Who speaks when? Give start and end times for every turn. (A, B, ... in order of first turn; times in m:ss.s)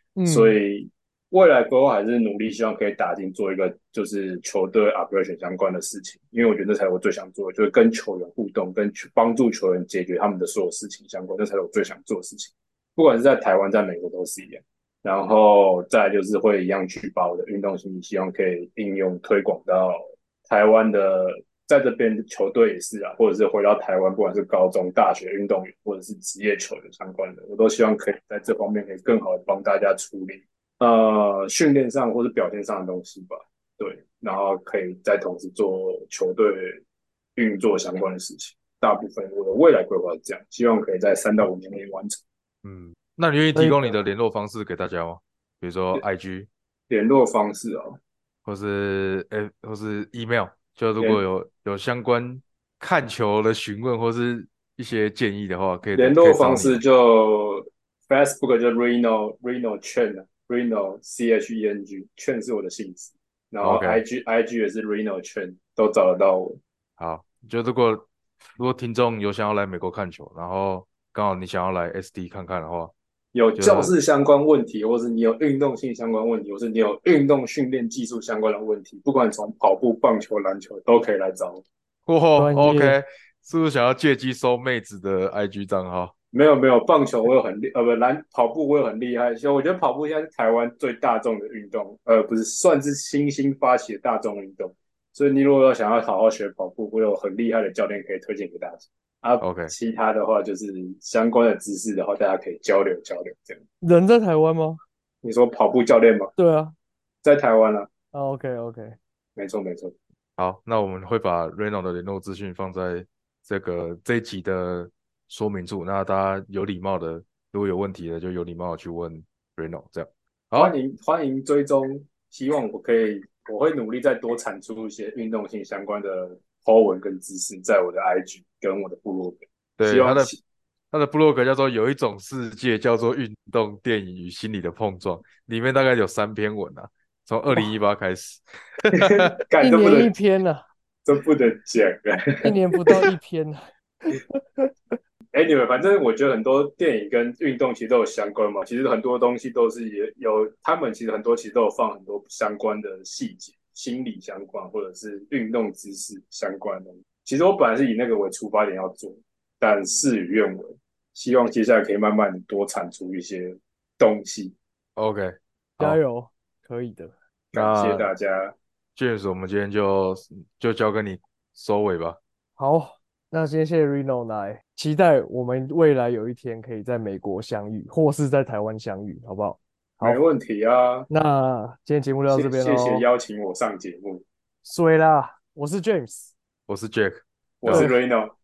0:00.2-0:00.6 A
0:00.3-0:36.8 B
0:37.4-0:42.2 B
0:42.6-0:46.5 C
0:46.9-0:48.0 B
0:48.4-0:56.8 C
0:56.0-1:06.6 B
1:03.6-1:04.0 C
1:07.0-1:12.9 C
1:13.3-1:21.6 B
1:13.6-1:13.9 C
1:22.1-1:26.1 C
1:22.4-1:23.0 A
1:26.3-1:43.6 B
1:39.4-1:39.7 C
1:43.8-1:44.8 A
1:45.2-1:46.3 B
1:46.4-1:46.8 A
1:47.2-1:47.9 B
1:48.1-1:49.0 A
1:49.4-1:49.9 B
1:50.4-2:00.7 C
2:00.6-2:10.4 B
2:09.8-2:10.3 C
2:10.9-2:19.3 C
2:18.9-2:20.1 B
2:19.6-2:20.6 A
2:21.1-2:22.6 B
2:22.4-2:24.7 A
2:25.3-2:44.6 B
2:45.0-2:46.0 C
2:45.8-2:47.1 A
2:47.5-2:48.6 B
2:47.5-2:48.1 C
2:49.0-2:52.2 C
2:52.6-3:00.2 A
3:00.0-3:01.1 B
3:01.1-3:03.0 A
3:02.3-3:04.2 B
3:04.6-3:06.3 A
3:06.7-3:07.9 C
3:07.6-3:08.3 B